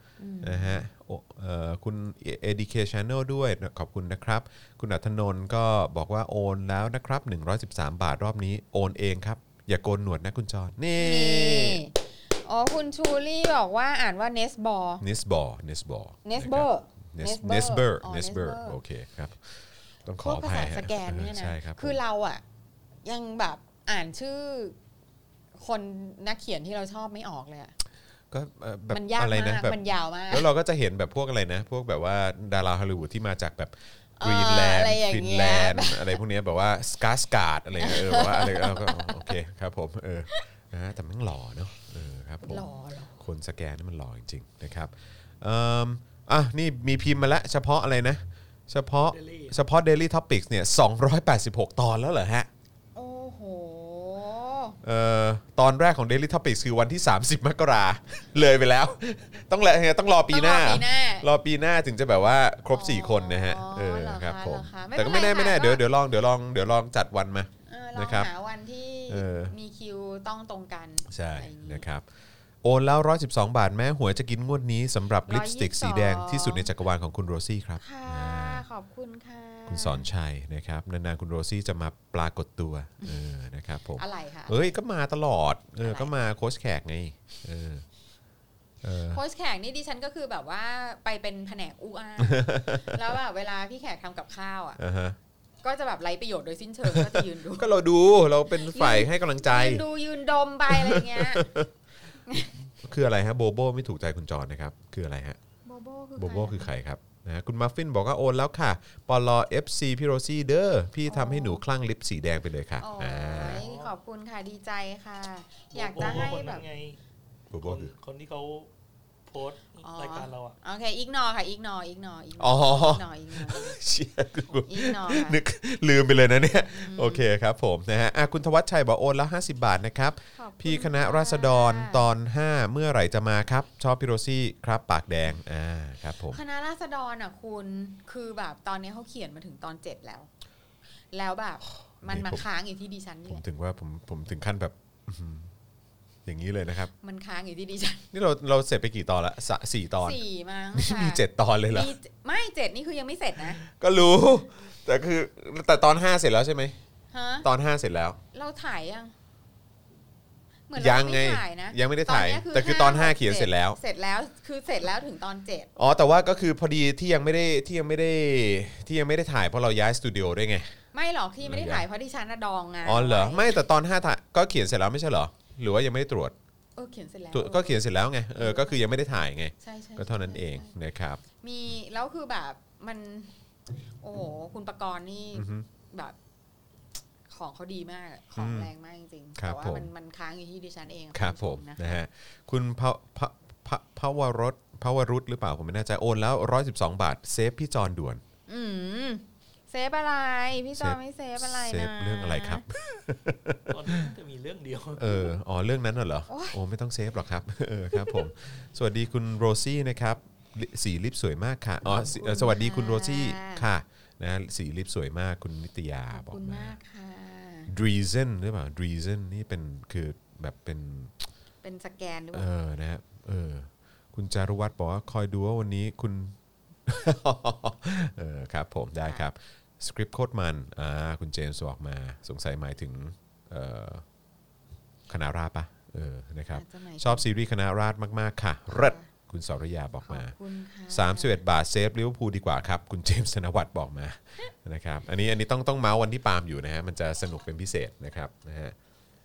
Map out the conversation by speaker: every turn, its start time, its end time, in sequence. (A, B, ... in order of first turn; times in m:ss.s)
0:00.2-0:00.8 A
0:00.4-0:11.8 B
0:11.0-0:15.0 A
0:15.0-0:22.0 B
0:16.2-0:18.8 A
0:20.2-0:22.4 A
0:23.0-0:24.8 A
0:25.6-0:27.7 A
0:28.3-0:29.8 B
0:28.9-0:30.5 A
0:30.3-0:42.7 B
0:34.2-0:36.2 A
0:37.8-0:39.4 A
0:42.4-0:43.2 A
0:43.2-0:52.5 B
0:49.1-0:49.6 C
0:53.0-0:54.8 A
0:54.8-1:08.3 B
1:00.3-1:01.3 A
1:02.7-1:05.8 A
1:07.7-1:11.9 A
1:09.1-1:09.5 B
1:11.1-1:12.0 B
1:12.6-1:18.6 B
1:15.3-1:16.7 A
1:17.8-1:20.1 A
1:19.7-1:27.8 B
1:24.0-1:24.7 A
1:25.8-1:26.1 A
1:28.8-1:29.2 B
1:29.1-1:34.8 A
1:32.2-1:33.0 B
1:34.8-1:35.2 B
1:35.6-1:37.7 A
1:36.9-1:39.8 B
1:38.6-1:41.5 A
1:40.7-1:41.7 B
1:42.3-1:42.5 A
1:42.8-1:45.4 B
1:45.7-1:46.7 A
1:46.2-1:53.6 B
1:51.1-1:51.6 A
1:52.8-1:56.6 A
1:53.4-1:53.9 C
1:55.7-1:57.0 C
1:57.5-1:57.9 B
1:57.6-1:58.7 C
1:59.3-2:00.6 C
1:59.8-2:03.8 A
2:02.4-2:16.4 B
2:04.7-2:05.4 A
2:06.7-2:07.3 A
2:10.4-2:12.1 A
2:16.3-2:20.3 A
2:21.1-2:23.4 A
2:22.0-2:22.4 B
2:23.3-2:25.5 B
2:26.2-2:26.9 B
2:27.0-2:28.0 A
2:28.1-2:30.2 B
2:30.0-2:33.6 A
2:30.8-2:31.9 B
2:33.6-2:36.8 B
2:37.1-2:37.5 A
2:37.4-2:38.2 B
2:38.3-2:39.1 A
2:40.7-2:45.7 A
2:40.8-2:43.8 B
2:45.8-2:50.8 B
2:50.9-2:53.6 A
2:51.4-2:51.8 B
2:52.8-2:56.4 B
2:56.8-2:57.8 A
2:57.3-3:01.2 B
2:58.4-2:59.1 A
2:59.6-3:00.8 A
3:01.4-3:03.4 A
3:04.0-3:06.2 A
3:05.4-3:05.7 B
3:07.3-3:12.0 A
3:08.4-3:08.7 B
3:09.4-3:09.9 B
3:11.1-3:18.2 B
3:18.5-3:22.6 A
3:20.8-3:24.1 B
3:23.7-3:25.2 C
3:25.0-3:36.8 B
3:26.3-3:26.6 A
3:27.9-3:28.3 A
3:31.9-3:33.7 A
3:36.1-3:37.7 A
3:37.7-3:41.1 B
3:41.6-3:42.5 A
3:42.3-3:46.4 B
3:46.9-3:54.0 B
3:55.1-4:00.3 B
3:56.5-3:57.3 A
3:58.7-3:59.1 A
4:00.0-4:01.4 A
4:00.9-4:08.8 B